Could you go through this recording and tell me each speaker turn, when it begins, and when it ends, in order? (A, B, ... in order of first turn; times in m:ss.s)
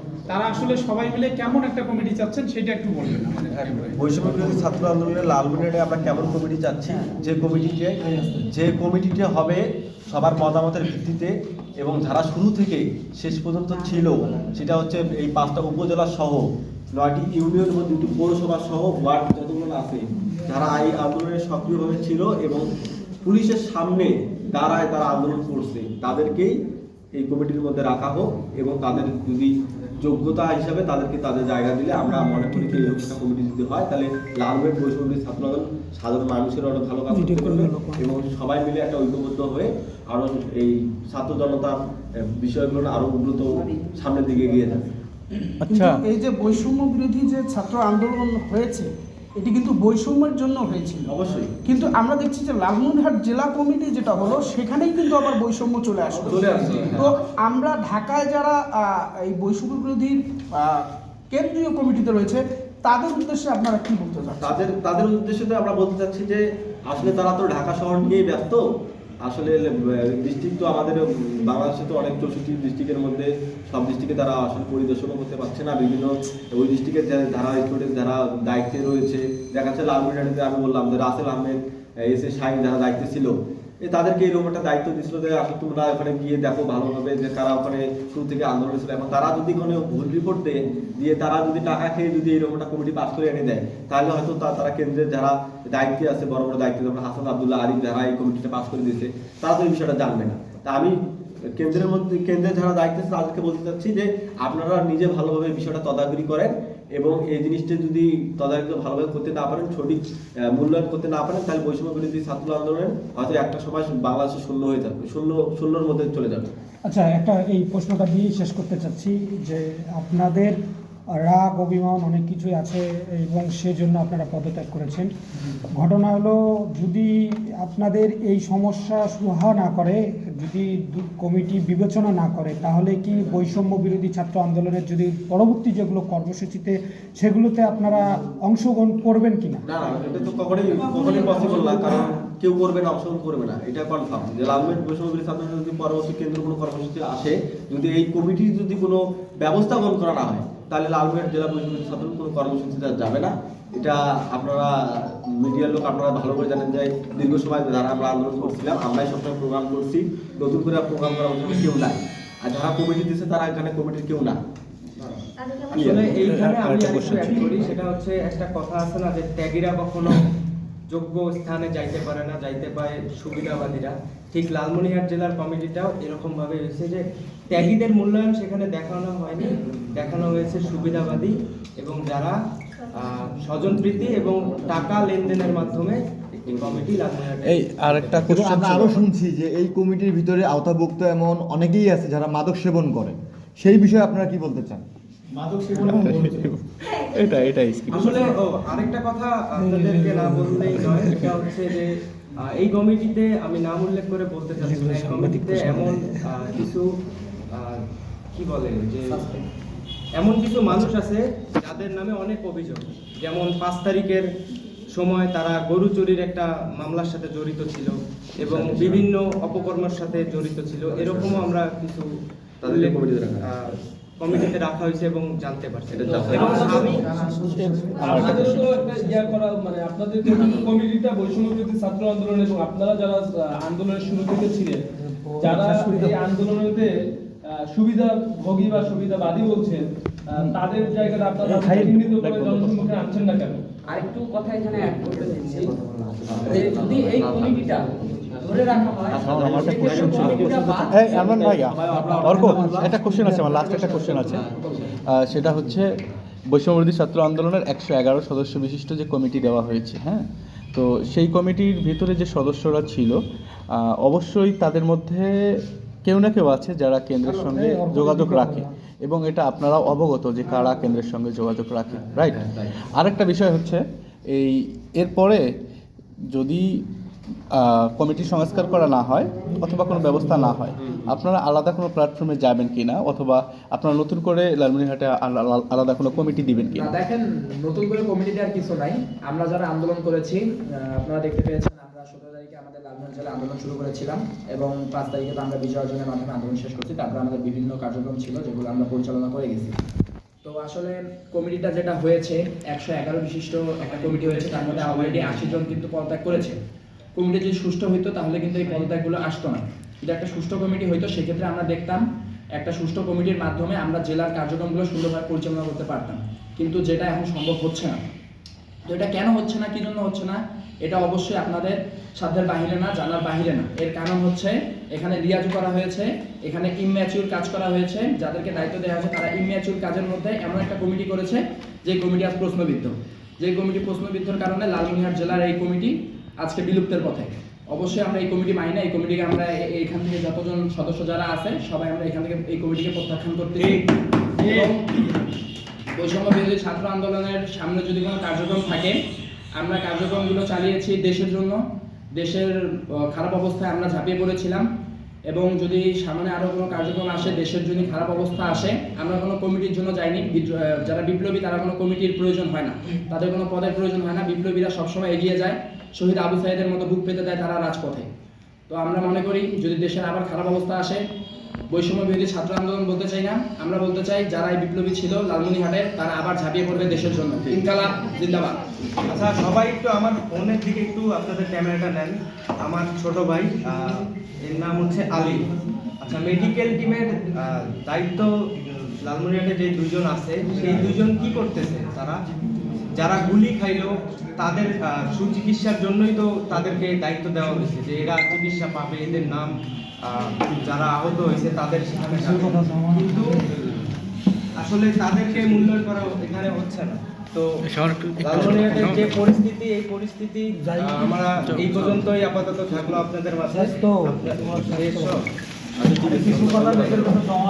0:00.3-0:04.0 A
0:03.6-0:22.7 B
0:23.2-0:26.6 B
0:27.2-0:44.8 B
0:32.3-0:33.0 C
0:37.1-0:38.0 C
0:45.6-0:46.0 D
0:45.7-0:51.1 E
0:51.1-0:51.5 B
0:51.7-1:04.6 E
0:56.2-0:57.1 B
1:04.4-1:08.6 B
1:09.2-1:41.0 B
1:41.5-1:56.5 B
1:56.9-2:00.6 C
2:01.1-2:05.1 C
2:05.8-2:19.6 C
2:19.7-2:44.4 B
2:45.0-2:50.2 F
2:45.7-2:46.1 B
2:45.8-2:47.6 D
2:50.9-3:02.4 F
3:02.9-3:08.4 F
3:06.5-3:06.9 B
3:07.4-3:09.0 D
3:08.3-3:14.8 G
3:15.3-3:16.4 G
3:15.7-3:18.4 D
3:17.9-3:26.9 F
3:19.8-3:20.6 C
3:20.7-3:21.3 D
3:24.8-3:25.9 C
3:28.3-3:29.4 F
3:30.2-3:34.2 F
3:34.9-3:42.1 F
3:38.4-3:39.0 B
3:40.9-3:41.5 B
3:42.6-3:43.7 B
3:42.6-3:47.1 F
3:45.9-3:47.0 B
3:46.3-3:47.5 H
3:47.2-3:48.0 C
3:47.5-3:48.9 D
3:48.0-3:54.8 I
3:55.4-4:03.6 I
3:55.7-3:55.9 C
4:01.4-4:02.9 D
4:03.9-4:11.2 H
4:06.2-4:07.7 B
4:09.1-4:13.0 B
4:09.2-4:14.5 D
4:13.6-4:14.6 B
4:13.8-4:14.8 H
4:15.1-4:15.9 D
4:16.5-4:23.2 D
4:24.1-4:25.3 D
4:26.1-4:32.4 D
4:27.4-4:28.7 C
4:31.9-4:32.7 B
4:33.0-4:33.8 D
4:34.4-4:35.4 D
4:36.3-4:36.6 D
4:38.0-4:46.9 D
4:40.8-4:41.1 B
4:46.7-4:59.8 J
5:00.4-5:06.6 J
5:03.8-5:05.8 F
5:07.2-5:12.0 J
5:12.6-5:18.0 J
5:18.9-5:43.8 J
5:43.6-5:44.7 F
5:44.4-5:44.8 J
5:46.0-5:49.0 J
5:49.6-5:51.6 J
5:52.2-5:54.7 J
5:55.3-6:08.1 J
6:08.7-6:11.0 J
6:11.7-6:18.6 J
6:19.1-6:25.5 F
6:26.0-6:28.3 F
6:29.0-6:32.2 F
6:33.0-6:43.5 F
6:42.2-6:42.6 C
6:44.6-6:47.6 F
6:47.6-6:49.1 D
6:48.2-6:55.2 F
6:51.5-6:52.0 D
6:53.7-6:55.0 C
6:55.8-6:57.3 B
6:56.1-6:57.1 F